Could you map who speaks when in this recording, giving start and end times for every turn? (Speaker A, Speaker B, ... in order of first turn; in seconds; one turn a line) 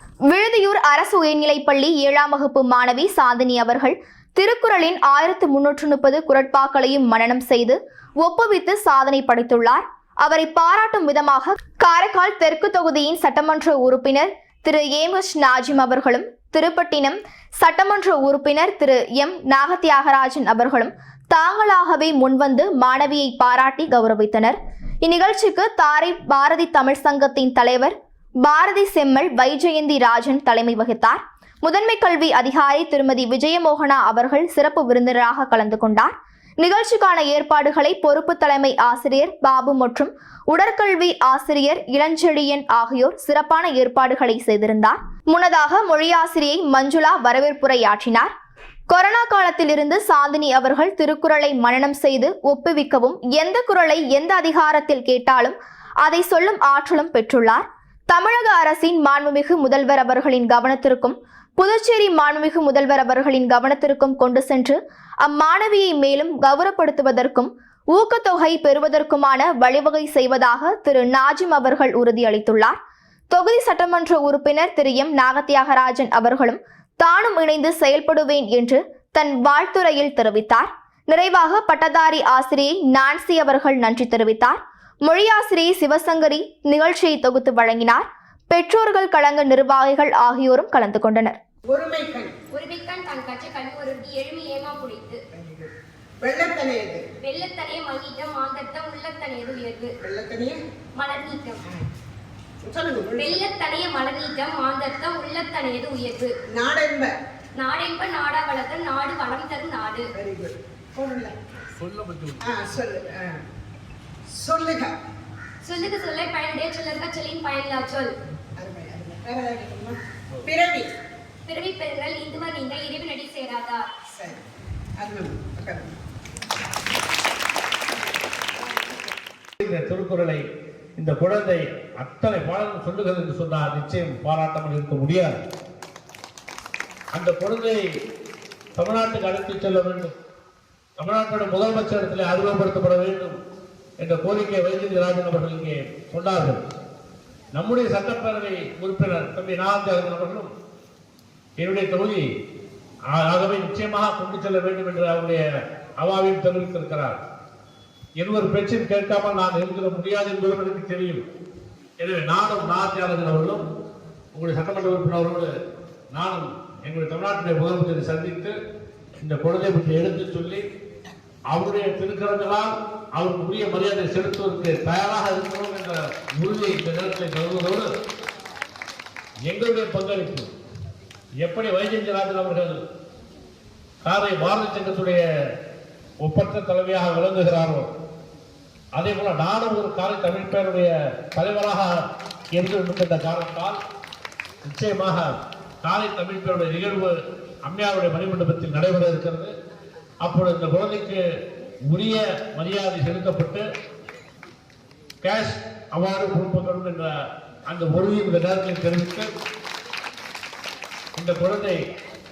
Speaker A: 0.3-48.3
Speaker A: 48.9-72.8
Speaker A: 73.3-91.4
Speaker B: 91.7-92.3
Speaker C: 92.5-95.2
Speaker B: 95.3-97.0
Speaker C: 97.2-99.9
Speaker B: 100.0-100.6
Speaker C: 101.0-101.6
Speaker B: 102.6-103.4
Speaker C: 103.2-106.3
Speaker B: 106.5-107.1
Speaker C: 107.6-110.0
Speaker B: 110.1-111.4
Speaker D: 111.8-112.5
Speaker B: 112.4-113.4
Speaker B: 114.3-114.9
Speaker C: 115.6-118.1
Speaker B: 118.6-120.9
Speaker C: 121.5-123.8
Speaker B: 124.1-124.4
Speaker B: 125.0-126.0
Speaker D: 129.6-130.4
Speaker D: 131.0-135.4
Speaker D: 137.1-137.8
Speaker D: 138.8-140.1
Speaker D: 141.0-143.4
Speaker D: 144.0-146.6
Speaker D: 147.5-150.5
Speaker D: 151.6-152.2
Speaker D: 153.1-155.4
Speaker D: 156.0-157.2
Speaker D: 158.2-161.2
Speaker D: 162.0-163.7
Speaker D: 164.3-165.5
Speaker D: 166.1-168.6
Speaker D: 169.2-170.6
Speaker D: 171.5-177.9
Speaker D: 179.5-180.5
Speaker D: 181.4-182.8
Speaker D: 184.0-185.2
Speaker D: 186.2-187.9
Speaker D: 189.0-191.9
Speaker D: 192.5-193.8
Speaker D: 194.7-195.3
Speaker D: 195.8-199.5
Speaker D: 200.2-201.2
Speaker D: 201.9-203.6
Speaker D: 205.2-207.1
Speaker D: 207.7-209.3
Speaker D: 211.2-211.8